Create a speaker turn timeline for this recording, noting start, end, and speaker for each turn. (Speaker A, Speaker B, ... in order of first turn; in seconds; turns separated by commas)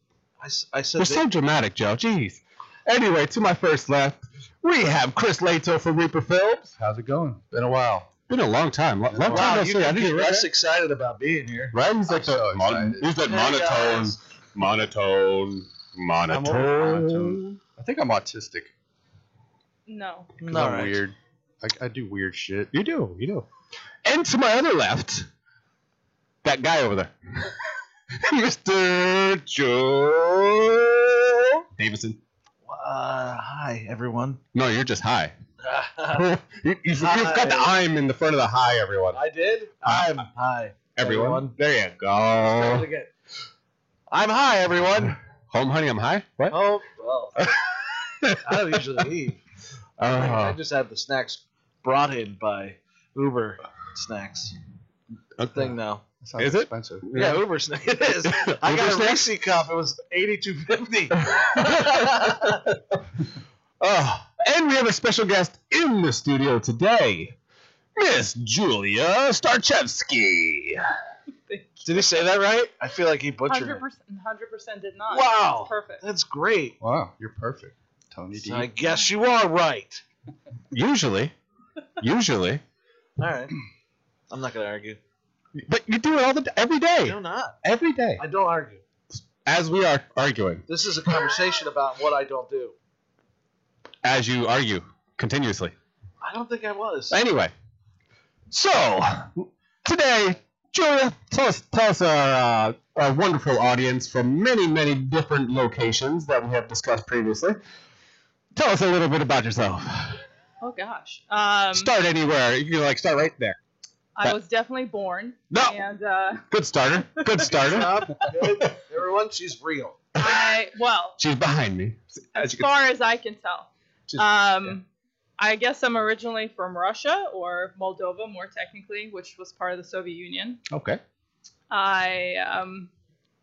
Speaker A: 0.4-1.2, Speaker B: 1.0-6.7, Speaker C: 6.8-8.1, Speaker B: 8.3-10.5, Speaker C: 9.2-9.6, Speaker A: 9.2-11.7, Speaker B: 11.7-17.6, Speaker C: 12.1-13.1, Speaker A: 13.2-14.2, Speaker A: 16.3-17.4, Speaker C: 17.8-18.7, Speaker D: 19.9-20.3, Speaker C: 20.4-22.7, Speaker A: 20.4-21.0, Speaker B: 22.7-23.5, Speaker B: 24.0-25.3, Speaker B: 26.4-27.5, Speaker B: 28.1-32.2, Speaker A: 32.6-34.4, Speaker B: 34.5-35.3, Speaker A: 35.6-36.3, Speaker B: 36.1-39.2, Speaker A: 37.0-37.7, Speaker A: 39.1-41.5, Speaker B: 39.8-40.1, Speaker B: 41.0-42.9, Speaker A: 42.5-43.1, Speaker A: 44.1-45.2, Speaker B: 45.5-46.5, Speaker A: 46.5-47.5, Speaker B: 47.4-48.6, Speaker A: 48.4-49.4, Speaker B: 50.0-50.6, Speaker A: 50.1-54.5, Speaker B: 55.4-55.7, Speaker A: 55.5-56.0, Speaker C: 56.2-57.1, Speaker B: 56.4-57.4, Speaker A: 57.1-62.6, Speaker B: 58.2-59.3, Speaker B: 61.3-62.7, Speaker B: 63.8-67.3, Speaker B: 68.0-70.8, Speaker D: 71.5-72.1, Speaker A: 71.8-73.8, Speaker D: 73.5-76.0, Speaker A: 75.1-76.7, Speaker C: 76.8-78.7, Speaker A: 78.3-80.0, Speaker B: 80.7-81.3, Speaker B: 82.0-82.6, Speaker A: 83.2-83.5, Speaker A: 84.3-85.0, Speaker B: 85.5-88.2, Speaker A: 87.0-87.5, Speaker A: 88.2-88.8, Speaker B: 89.4-90.6, Speaker A: 90.7-92.7, Speaker B: 94.0-95.7, Speaker A: 96.2-97.2, Speaker B: 97.1-97.5, Speaker B: 98.5-107.6, Speaker B: 108.5-110.2, Speaker D: 110.6-111.9, Speaker B: 111.7-113.6, Speaker D: 114.2-116.5, Speaker B: 115.5-115.8, Speaker B: 116.5-118.0, Speaker D: 117.2-117.6, Speaker A: 117.4-120.0, Speaker B: 120.2-120.5, Speaker D: 120.2-121.2, Speaker B: 121.2-122.7, Speaker D: 122.3-124.8, Speaker D: 125.4-130.6, Speaker B: 130.7-131.0, Speaker D: 131.7-132.9